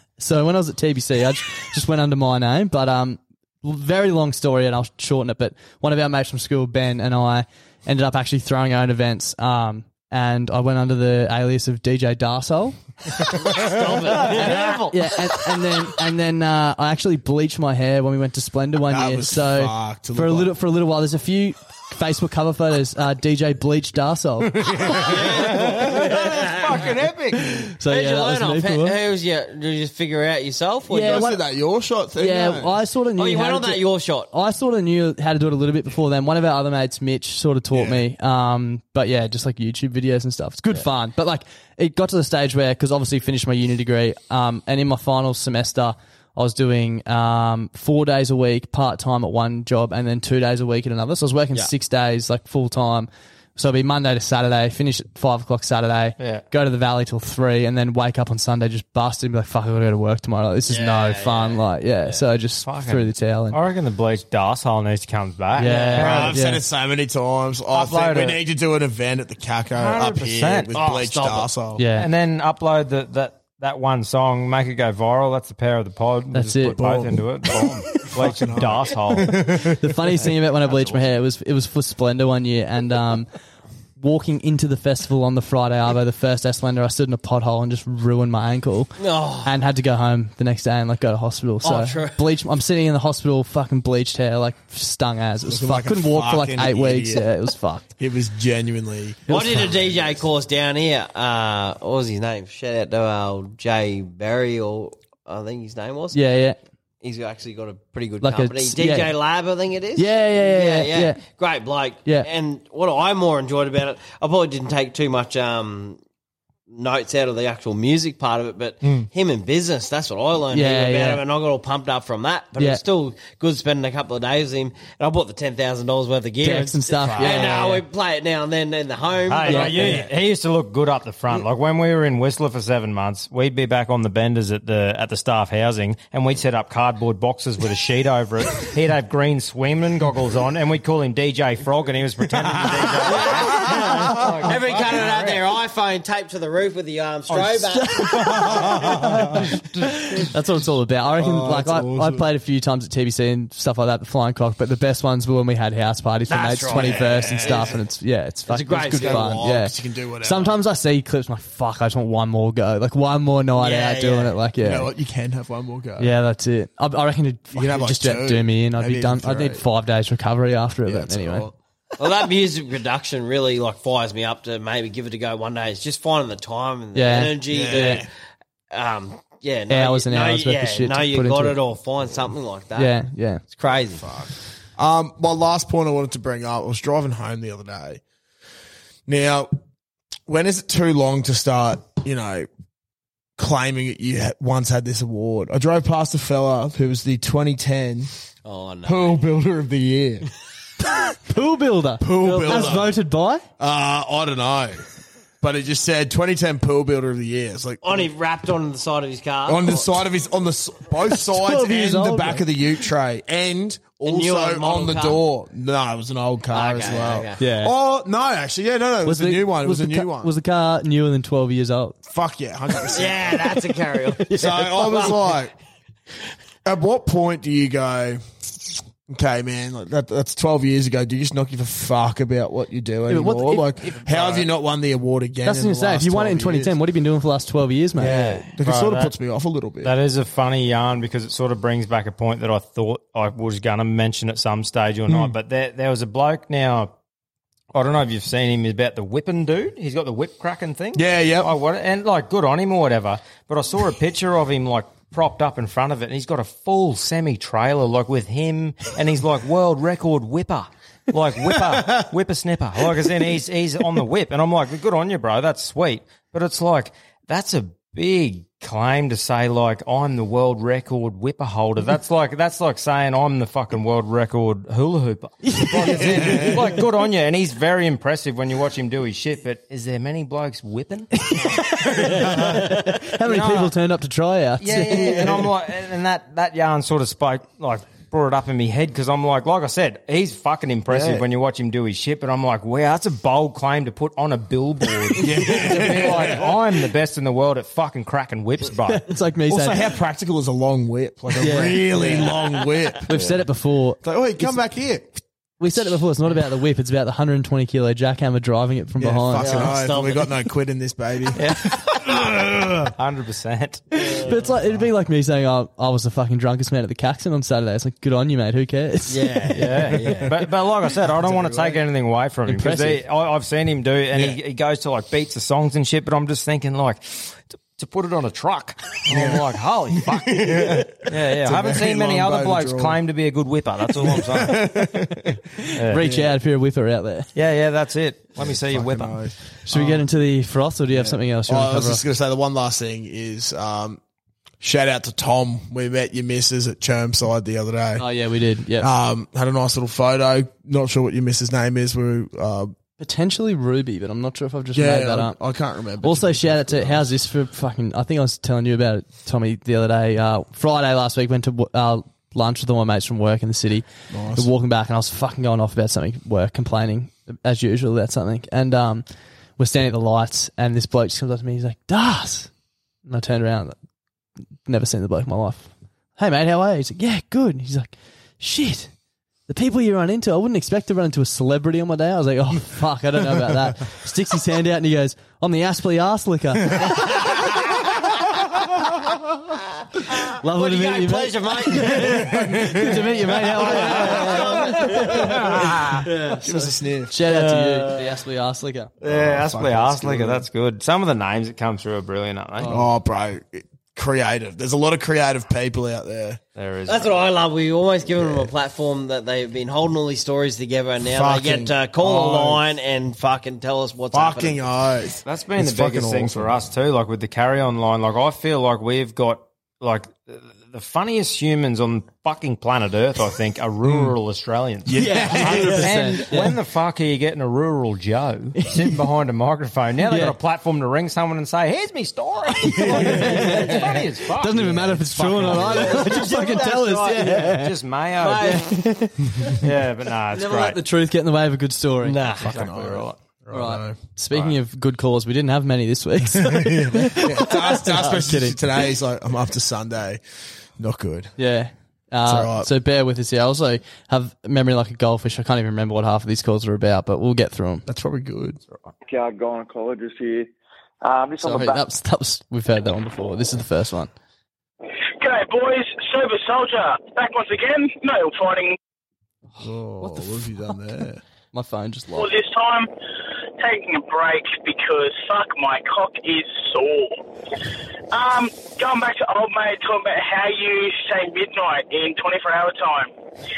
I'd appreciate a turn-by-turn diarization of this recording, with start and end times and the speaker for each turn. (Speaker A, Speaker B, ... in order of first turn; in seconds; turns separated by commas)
Speaker A: 0.2-12.8, Speaker B: 13.4-15.2, Speaker A: 14.1-24.7, Speaker C: 18.9-20.5, Speaker B: 24.9-26.9, Speaker D: 26.1-27.4, Speaker A: 27.8-29.0, Speaker B: 27.9-31.2, Speaker A: 30.9-31.4, Speaker C: 31.0-32.8, Speaker A: 32.2-63.6, Speaker B: 33.1-34.3, Speaker C: 37.7-38.0, Speaker D: 56.2-56.4, Speaker B: 60.7-61.6, Speaker D: 62.6-66.3, Speaker A: 65.6-66.6, Speaker C: 65.9-71.8, Speaker D: 67.7-68.4, Speaker D: 69.8-70.8, Speaker B: 70.7-71.5, Speaker A: 71.8-72.1, Speaker D: 71.9-79.7, Speaker A: 76.3-76.8, Speaker C: 76.8-77.2, Speaker C: 78.0-79.8, Speaker A: 79.8-83.3, Speaker A: 84.0-97.8, Speaker B: 89.0-89.5, Speaker B: 91.6-92.2, Speaker C: 95.5-97.3, Speaker C: 98.0-100.2, Speaker B: 99.3-106.2, Speaker A: 99.3-99.7, Speaker A: 106.1-106.6, Speaker B: 107.0-116.0, Speaker A: 108.2-109.2, Speaker A: 109.9-111.2, Speaker B: 116.7-130.1, Speaker C: 118.8-119.1, Speaker A: 120.5-121.2, Speaker A: 122.6-122.8, Speaker A: 126.4-127.8, Speaker D: 129.3-145.4, Speaker A: 129.4-130.0, Speaker B: 143.2-148.4, Speaker C: 143.7-144.5, Speaker A: 147.7-164.9, Speaker C: 148.5-149.4, Speaker C: 151.2-152.3, Speaker B: 156.3-157.8, Speaker C: 156.7-157.8, Speaker B: 158.5-159.5, Speaker C: 158.9-160.5, Speaker B: 163.6-164.4, Speaker C: 164.6-166.1, Speaker A: 166.0-171.5, Speaker C: 167.5-169.6, Speaker C: 170.8-171.5, Speaker B: 172.0-178.1, Speaker A: 176.9-178.0, Speaker C: 177.4-178.1, Speaker B: 178.7-184.1, Speaker A: 179.7-181.6, Speaker A: 182.8-183.4, Speaker C: 184.0-188.0, Speaker C: 189.1-189.5, Speaker C: 190.3-192.5, Speaker C: 193.4-198.1, Speaker B: 198.4-199.2, Speaker C: 198.8-200.3, Speaker A: 201.2-203.4, Speaker C: 202.0-202.9, Speaker B: 202.2-202.9, Speaker C: 203.6-204.8, Speaker C: 205.4-208.1, Speaker B: 207.8-209.8, Speaker C: 209.4-220.3, Speaker A: 211.1-212.4, Speaker B: 214.0-215.2, Speaker B: 216.5-217.4, Speaker A: 217.4-217.7, Speaker A: 219.1-222.0, Speaker C: 222.1-223.5, Speaker B: 222.9-225.2, Speaker A: 224.2-225.0, Speaker C: 224.4-225.5, Speaker C: 226.6-228.2, Speaker C: 229.1-236.7, Speaker A: 233.1-234.0, Speaker D: 234.1-234.5, Speaker A: 235.4-238.2, Speaker C: 238.0-239.9, Speaker D: 238.0-239.2, Speaker D: 239.8-246.9, Speaker C: 245.1-245.3, Speaker D: 247.7-281.3, Speaker C: 250.9-251.5, Speaker A: 275.4-276.4, Speaker C: 276.0-276.6, Speaker A: 281.3-285.4, Speaker D: 282.1-282.6, Speaker D: 283.2-283.7, Speaker D: 284.6-299.1, Speaker C: 284.7-285.5, Speaker C: 290.9-291.2, Speaker C: 295.2-296.6, Speaker A: 298.9-299.9, Speaker C: 299.5-303.1, Speaker A: 301.4-302.3, Speaker A: 303.1-304.6, Speaker C: 304.0-305.1, Speaker A: 305.6-309.7, Speaker C: 309.0-311.5, Speaker B: 309.4-310.3, Speaker C: 312.1-312.9, Speaker D: 312.9-313.8, Speaker A: 314.1-319.7, Speaker B: 319.1-320.3, Speaker D: 319.5-334.7, Speaker C: 321.2-321.8, Speaker A: 322.5-323.0, Speaker C: 329.1-333.0, Speaker C: 333.9-335.4, Speaker D: 335.8-336.0, Speaker A: 335.9-337.3, Speaker C: 336.0-336.4, Speaker D: 337.3-339.2, Speaker C: 338.4-340.0, Speaker A: 339.7-342.0, Speaker C: 340.9-344.0, Speaker C: 344.6-348.0, Speaker A: 348.0-348.9, Speaker C: 348.8-352.7, Speaker A: 353.0-355.4, Speaker C: 354.7-357.1, Speaker A: 356.0-369.1, Speaker C: 364.1-364.5, Speaker A: 369.6-372.5, Speaker A: 373.0-373.8, Speaker A: 374.6-378.9, Speaker A: 379.5-386.9, Speaker A: 390.4-395.3, Speaker B: 390.5-392.4, Speaker B: 393.4-395.1, Speaker C: 394.1-394.5, Speaker C: 395.3-397.1, Speaker A: 396.4-398.9, Speaker D: 399.0-402.7, Speaker C: 399.0-400.4, Speaker A: 402.6-402.8, Speaker C: 402.6-406.4, Speaker D: 406.6-407.2, Speaker B: 406.9-414.6, Speaker C: 408.1-408.5, Speaker C: 411.1-412.6, Speaker C: 414.1-416.6, Speaker D: 415.2-436.1, Speaker C: 423.8-424.1, Speaker C: 424.9-425.9, Speaker A: 425.0-426.6, Speaker A: 430.1-430.3, Speaker A: 432.7-437.7, Speaker B: 435.6-437.4, Speaker D: 437.5-438.6, Speaker B: 438.2-438.6, Speaker A: 438.3-439.6, Speaker D: 439.6-440.8, Speaker B: 440.3-440.7, Speaker A: 440.5-442.2, Speaker B: 442.0-442.6, Speaker D: 442.4-443.1, Speaker C: 442.4-444.0, Speaker A: 443.5-448.6, Speaker C: 446.3-450.2, Speaker C: 450.8-451.3, Speaker A: 451.4-457.8, Speaker C: 452.2-452.7, Speaker C: 457.9-458.6, Speaker E: 459.0-460.5, Speaker E: 461.0-461.8, Speaker A: 461.4-464.1, Speaker F: 465.2-468.8, Speaker A: 469.6-470.5, Speaker C: 469.6-471.2, Speaker A: 471.5-472.3, Speaker F: 472.1-472.9, Speaker F: 473.6-477.2, Speaker F: 478.1-483.1